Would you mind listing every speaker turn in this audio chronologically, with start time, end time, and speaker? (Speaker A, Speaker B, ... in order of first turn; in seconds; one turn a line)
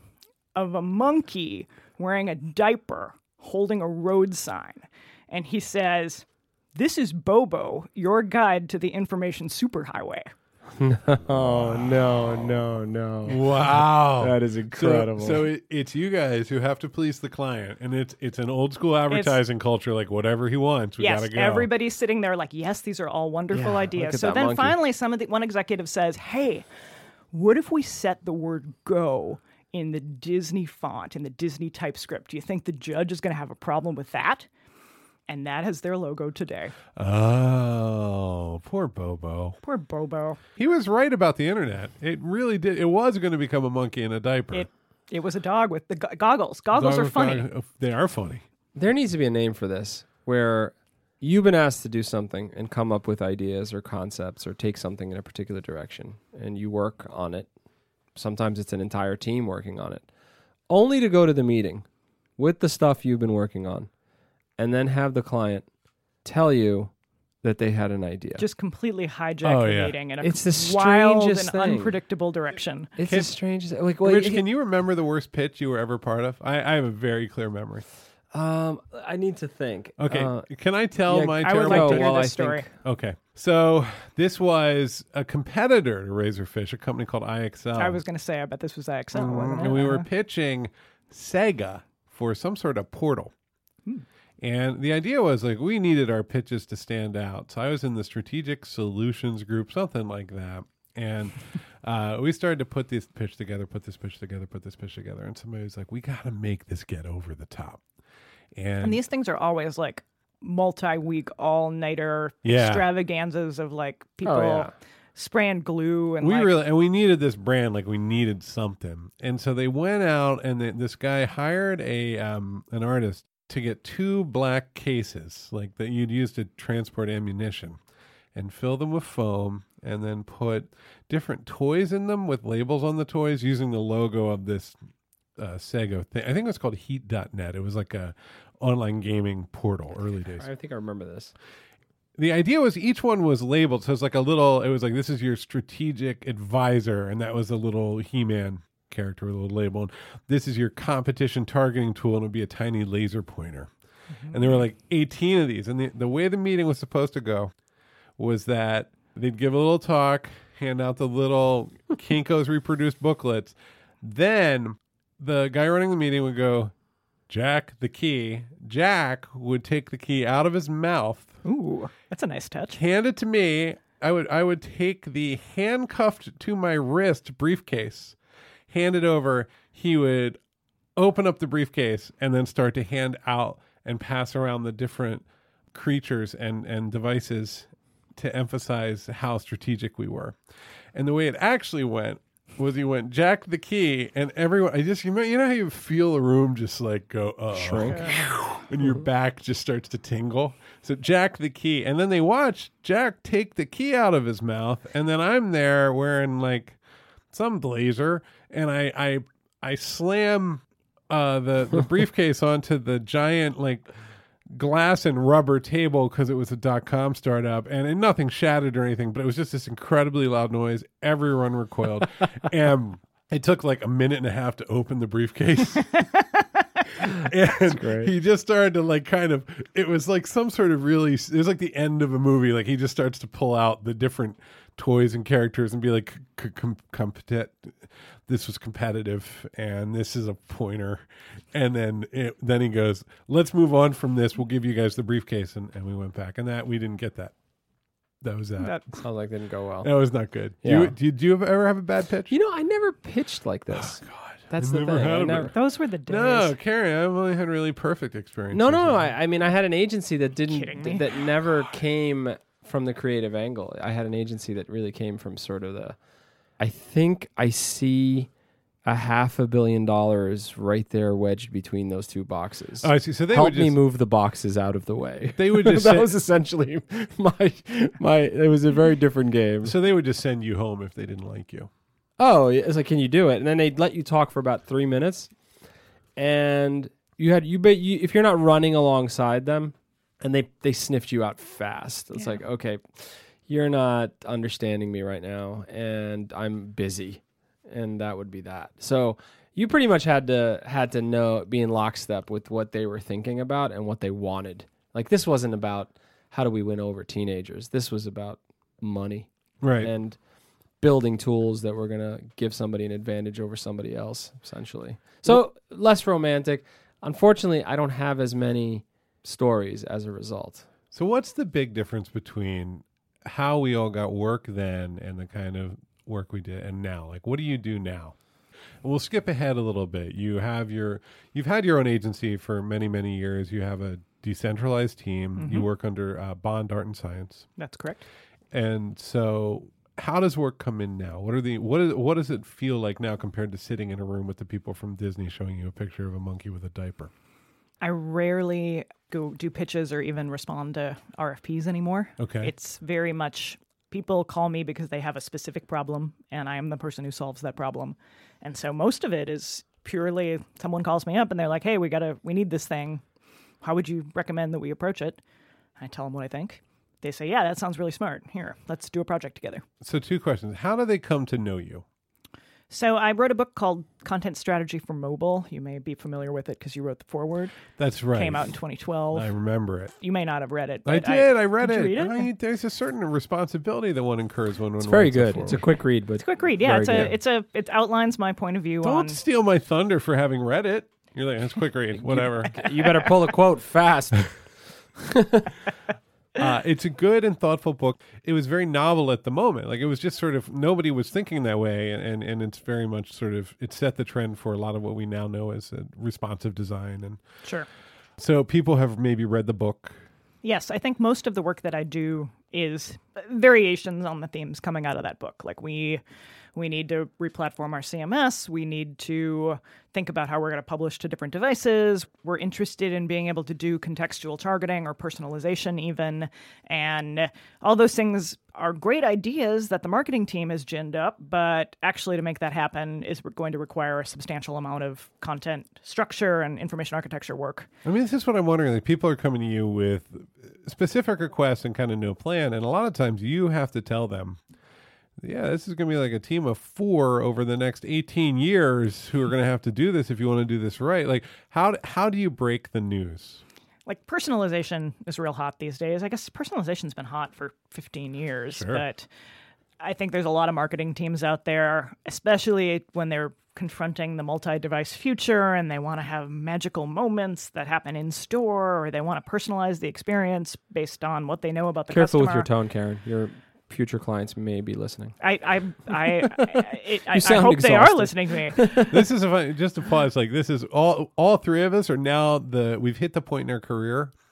Speaker A: 0.5-10.3
Speaker B: 10.8-15.4
Speaker C: 13.2-21.7
Speaker A: 19.1-19.4
Speaker A: 21.0-26.6
Speaker B: 23.5-24.8
Speaker A: 27.3-34.5
Speaker A: 35.3-36.8
Speaker C: 37.0-39.6
Speaker A: 39.6-40.4
Speaker C: 40.6-44.7
Speaker A: 44.5-47.5
Speaker C: 46.7-48.4
Speaker B: 48.8-57.5
Speaker B: 58.1-60.1
Speaker B: 60.7-61.8
Speaker B: 62.4-63.9
Speaker B: 64.6-65.7
Speaker B: 66.2-66.9
Speaker B: 67.4-68.4
Speaker A: 68.4-72.9
Speaker C: 69.4-70.0
Speaker B: 70.2-71.9
Speaker B: 73.0-74.4
Speaker C: 73.0-73.3
Speaker C: 74.0-77.8
Speaker B: 78.3-80.5
Speaker C: 80.0-82.1
Speaker B: 81.1-82.7
Speaker A: 81.4-82.7
Speaker C: 82.8-88.0
Speaker A: 87.8-90.0
Speaker C: 89.1-93.3
Speaker C: 94.4-107.8
Speaker C: 108.5-109.0
Speaker A: 108.8-116.5
Speaker C: 112.4-112.8
Speaker B: 114.2-114.7
Speaker C: 116.2-127.8
Speaker C: 128.3-134.8
Speaker C: 135.4-140.4
Speaker B: 140.4-141.3
Speaker C: 142.2-153.7
Speaker A: 154.2-154.6
Speaker C: 154.3-157.5
Speaker C: 158.2-166.7
Speaker C: 167.3-171.4
Speaker A: 171.4-172.8
Speaker C: 172.7-178.2
Speaker C: 178.7-180.4
Speaker C: 180.9-190.3
Speaker C: 190.9-206.8
Speaker B: 197.5-198.2
Speaker C: 207.3-213.8
Speaker C: 214.5-226.1
Speaker C: 226.9-247.3
Speaker B: 227.7-228.1
Speaker C: 248.2-249.0
Speaker A: 248.6-248.8
Speaker B: 249.0-249.9
Speaker C: 249.8-252.3
Speaker B: 250.6-250.9
Speaker B: 252.3-255.5
Speaker C: 253.7-259.1
Speaker A: 255.5-256.5
Speaker B: 258.5-266.0
Speaker A: 260.5-261.1
Speaker B: 266.6-268.3
Speaker B: 268.9-279.7
Speaker C: 272.8-273.8
Speaker C: 275.4-276.1
Speaker C: 279.6-281.7
Speaker B: 282.2-285.3
Speaker B: 286.1-309.3
Speaker C: 309.6-309.9
Speaker B: 309.8-310.2
Speaker B: 310.8-320.7
Speaker C: 320.9-328.1
Speaker C: 328.8-337.5
Speaker A: 335.4-335.7
Speaker A: 337.6-338.1
Speaker C: 338.5-347.1
Speaker A: 347.8-363.0
Speaker C: 352.2-352.5
Speaker A: 363.6-365.2
Speaker A: 365.8-369.6
Speaker C: 369.8-371.8
Speaker A: 372.7-377.6
Speaker C: 377.8-378.5
Speaker A: 378.1-379.3
Speaker C: 379.1-379.9
Speaker A: 380.0-382.3
Speaker C: 380.9-385.6
Speaker B: 384.8-387.1
Speaker A: 386.2-389.2
Speaker C: 388.8-392.6
Speaker B: 391.9-394.3
Speaker B: 395.0-395.5
Speaker C: 396.3-407.2
Speaker C: 408.2-409.9
Speaker A: 410.4-416.0
Speaker A: 416.5-437.7
Speaker C: 437.8-444.4
Speaker C: 445.2-453.4
Speaker A: 453.9-459.1
Speaker C: 458.6-458.8
Speaker A: 459.8-472.5
Speaker B: 471.9-475.2
Speaker A: 475.2-478.7
Speaker B: 476.0-479.1
Speaker C: 478.8-484.1